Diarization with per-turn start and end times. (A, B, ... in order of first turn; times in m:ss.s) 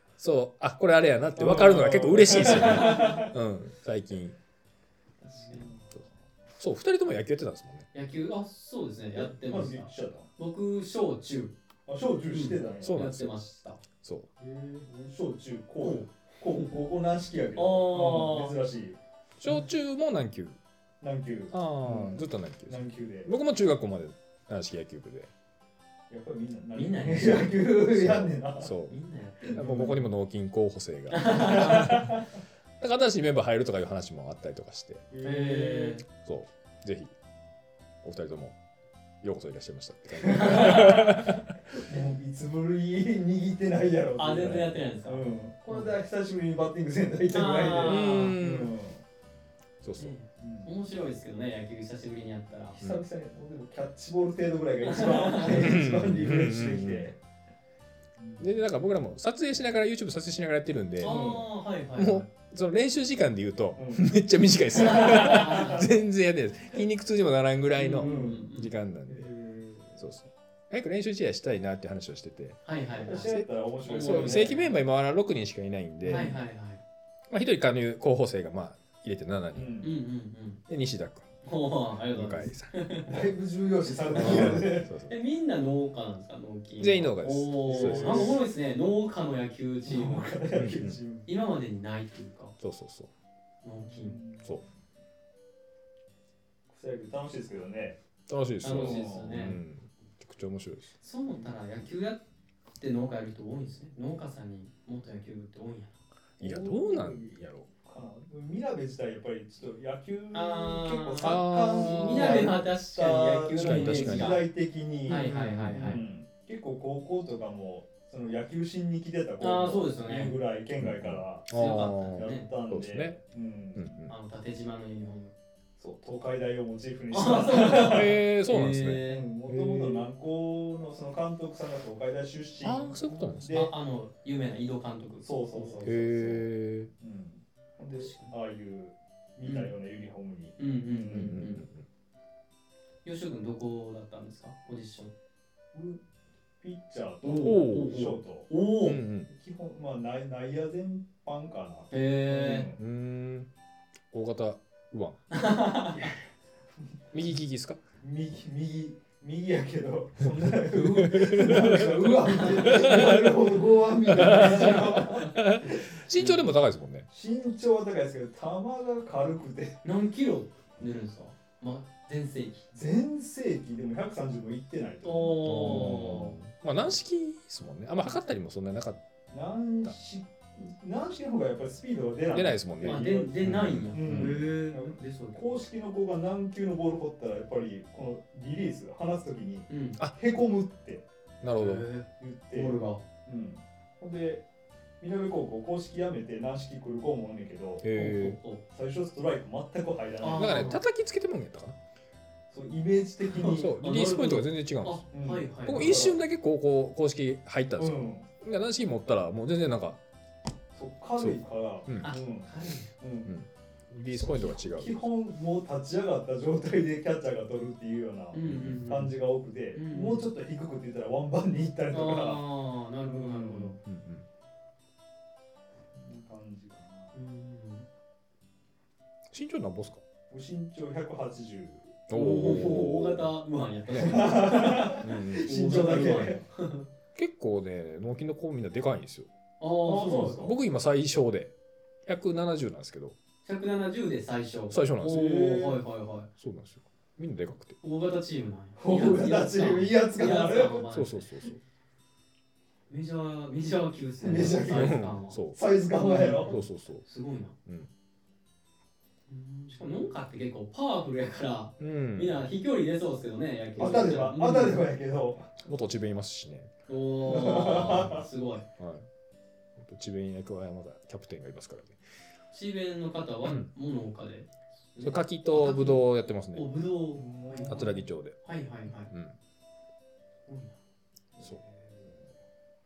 0:00.2-0:04.4 A
0:01.4-0:03.3 B
0:02.6-0:03.2 C
0:05.2-0:05.7 C
0:05.3-0:06.1 B
0:06.6-0:07.9 A
0:07.9-0:11.6 C
0:09.2-0:10.3 B
0:11.9-0:13.0 B
0:12.3-0:13.8 C
0:12.8-0:13.3 A
0:14.0-0:14.3 A
0:14.4-0:19.0 B
0:15.8-0:16.1 C
0:17.6-0:18.6 C
0:19.4-0:20.6 A
0:21.0-0:23.3 B
0:21.5-0:25.3 A
0:26.1-0:28.7 B
0:26.7-0:27.6 C
0:27.9-0:29.0 A
0:28.9-0:29.6 C
0:29.5-0:30.1 B
0:29.5-0:32.2 A
0:31.1-0:32.0 C
0:31.3-0:32.3 B
0:32.8-0:35.1 A
0:35.1-0:36.0 B
0:35.2-0:36.0 C
0:36.2-0:37.1 A
0:38.0-0:38.6 A
0:39.2-0:41.6 A
0:40.2-0:41.2 B
0:40.3-0:41.2 C
0:41.8-0:49.0 B
0:44.2-0:46.0 C
0:47.3-0:48.4 C
0:47.8-0:48.7 A
0:49.8-0:50.2 A
0:50.0-0:52.8 C
0:50.4-0:50.7 B
0:52.8-0:57.2 B
0:54.8-0:55.7 C
0:55.5-0:57.1 A
0:58.2-0:58.5 B
0:58.4-1:01.2 A
1:01.0-1:02.3 C
1:01.0-1:01.5 B
1:02.0-1:09.3 A
1:03.8-1:04.2 B
1:04.7-1:06.0 B
1:04.8-1:05.8 C
1:07.8-1:08.7 C
1:08.0-1:08.5 B
1:09.1-1:10.0 B
1:10.0-1:12.6 A
1:12.6-1:14.7 C
1:13.0-1:14.6 B
1:13.2-1:16.4 A
1:16.0-1:16.4 B
1:16.1-1:16.8 C
1:17.3-1:19.8 A
1:19.6-1:20.0 B
1:19.8-1:20.6 C
1:20.7-1:21.3 A
1:21.4-1:23.3 C
1:22.1-1:22.7 A
1:23.1-1:24.9 B
1:24.0-1:30.3 C
1:24.1-1:25.2 A
1:26.8-1:28.4 A
1:27.7-1:28.5 B
1:29.9-1:31.3 B
1:30.6-1:31.0 A
1:31.3-1:32.6 C
1:32.6-1:33.1 A
1:33.6-1:34.2 C
1:33.8-1:34.6 B
1:36.7-1:38.0 B
1:38.3-1:41.0 A
1:38.6-1:39.6 C
1:38.6-1:39.4 B
1:41.0-1:42.2 C
1:42.8-1:46.0 C
1:46.4-1:47.7 A
1:46.4-2:03.9 B
1:50.3-1:54.5 C
1:51.2-1:52.5 A
1:53.6-1:54.4 A
1:55.1-1:56.0 C
1:55.1-1:56.0 A
1:59.4-2:00.4 C
2:00.8-2:03.2 A
2:01.5-2:02.5 C
2:03.8-2:04.1 A
2:04.1-2:05.4 C
2:05.8-2:08.2 B
2:07.1-2:09.3 C
2:07.8-2:10.0 A
2:09.1-2:13.7 B
2:12.6-2:13.6 A
2:13.5-2:16.0 C
2:15.2-2:16.5 B
2:15.8-2:16.9 A
2:17.0-2:21.4 B
2:18.0-2:18.3 C
2:19.4-2:19.7 C
2:20.6-2:21.6 C
2:21.1-2:21.8 A
2:23.0-2:25.1 C
2:25.7-2:26.0 B
2:26.6-2:28.5 B
2:27.2-2:29.0 C
2:27.4-2:28.0 A
2:28.8-2:29.3 A
2:29.3-2:32.8 B
2:31.9-2:32.7 C
2:32.8-2:33.5 A
2:34.1-2:35.2 A
2:35.3-2:36.1 C
2:37.1-2:37.8 A
2:38.0-2:45.8 B
2:40.4-2:43.4 A
2:42.3-2:42.7 C
2:44.1-2:47.1 A
2:44.2-2:45.1 C
2:47.1-2:49.8 B
2:49.8-2:52.6 C
2:52.7-2:56.4 B
2:55.0-2:56.4 C
2:55.4-2:59.0 A
2:59.3-3:11.1 B
3:02.3-3:04.4 A
3:02.8-3:05.6 C
3:09.7-3:10.0 C
3:11.4-3:11.8 A
3:11.6-3:13.0 C
3:12.2-3:14.4 B
3:15.0-3:17.9 B
3:17.8-3:18.4 A
3:17.9-3:18.6 C
3:18.7-3:20.7 B
3:20.2-3:20.8 C
3:20.3-3:21.8 A
3:22.5-3:23.7 B
3:23.2-3:26.0 C
3:23.5-3:25.0 A
3:25.1-3:26.2 B
3:25.7-3:30.0 A
3:27.8-3:28.3 B
3:30.7-3:33.3 B
3:31.2-3:32.1 A
3:32.0-3:32.9 C
3:33.3-3:35.0 A
3:34.1-3:42.4 B
3:38.3-3:39.1 C
3:38.4-3:39.1 A
3:39.8-3:40.3 C
3:41.9-3:43.8 C
3:43.1-3:43.8 B
3:43.8-3:44.3 A
3:46.0-3:47.1 B
3:47.1-3:47.9 C
3:49.3-3:50.0 A
3:50.3-3:52.0 B
3:52.1-3:53.3 A
3:52.1-3:56.9 C
3:53.9-3:54.3 A
3:54.0-3:56.4 B
3:55.0-3:56.2 A
3:57.2-3:59.3 A
3:59.6-4:00.5 C
3:59.8-4:00.6 B
4:00.4-4:01.5 A
4:02.0-4:03.2 A
4:03.4-4:06.3 C
4:04.7-4:05.3 A
4:05.1-4:05.8 B
4:06.4-4:07.8 A
4:07.8-4:11.5 C
4:08.8-4:10.8 B
4:10.9-4:11.6 A
4:12.9-4:15.4 C
4:14.2-4:16.5 B
4:14.5-4:15.6 A
4:16.0-4:17.6 C
4:16.1-4:17.0 A
4:19.3-4:24.9 C
4:21.8-4:22.4 A
4:23.8-4:25.4 B
4:25.4-4:26.7 A
4:26.9-4:28.7 C
4:27.3-4:28.2 B
4:27.4-4:28.2 A
4:28.8-4:29.1 A
4:29.8-4:32.0 A
4:32.5-4:39.1 C
4:33.4-4:33.7 A
4:35.0-4:36.7 A
4:37.2-4:38.0 B
4:37.7-4:39.4 A
4:40.5-4:40.8 C
4:41.4-4:42.3 B